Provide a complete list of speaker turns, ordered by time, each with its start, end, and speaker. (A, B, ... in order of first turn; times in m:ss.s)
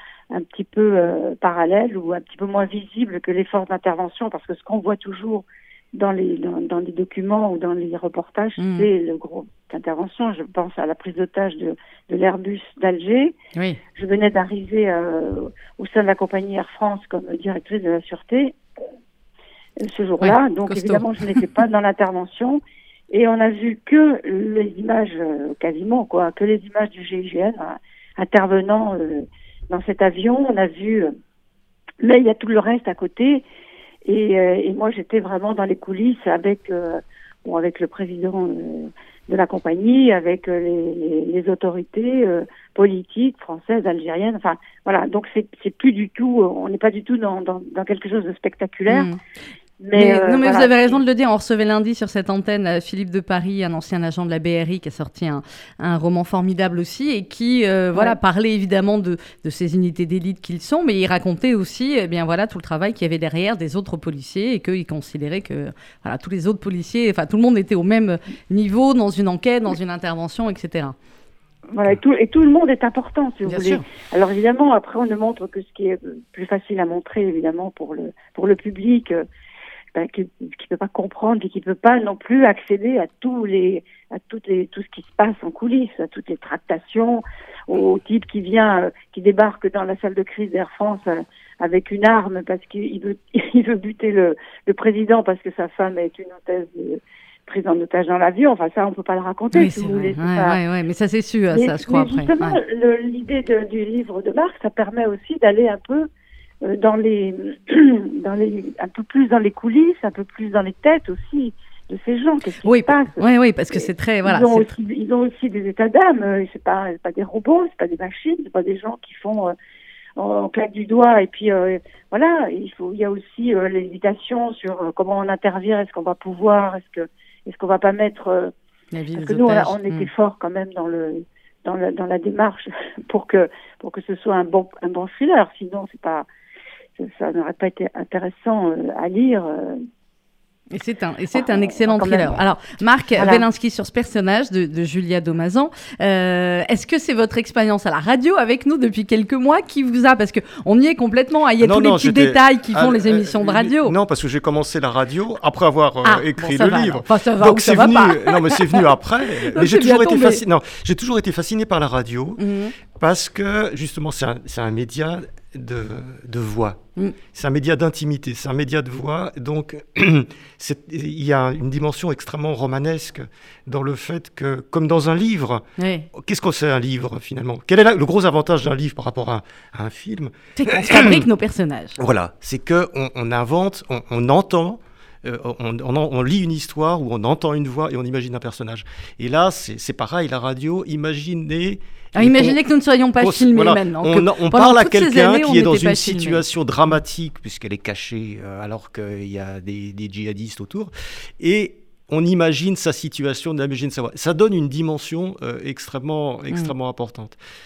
0:00.3-0:13.3 A
0:08.6-0:08.9 B
0:13.9-0:18.6 A
0:19.8-0:31.1 A
0:20.2-0:21.0 B
0:32.0-0:33.4 A
0:34.0-0:49.1 A
0:48.9-0:49.2 B
0:49.8-0:51.0 A
0:49.9-1:11.0 B
1:11.7-1:19.2 A
1:13.4-1:13.8 B
1:19.9-1:40.6 A
1:39.5-1:42.6 B
1:41.5-1:46.1 A
1:46.6-1:59.5 A
1:52.6-1:54.7 B
2:00.2-2:08.5 A
2:08.9-2:10.1 B
2:09.2-2:16.2 A
2:17.0-2:19.8 A
2:20.7-2:33.9 B
2:21.3-2:22.3 A
2:23.2-2:23.4 A
2:31.6-3:01.2 C
2:36.0-2:38.8 B
2:39.4-2:40.4 B
2:42.4-2:42.7 B
2:55.8-2:56.1 B
3:00.6-3:02.0 B
3:02.0-3:12.6 C
3:12.1-3:16.4 B
3:13.2-3:27.4 C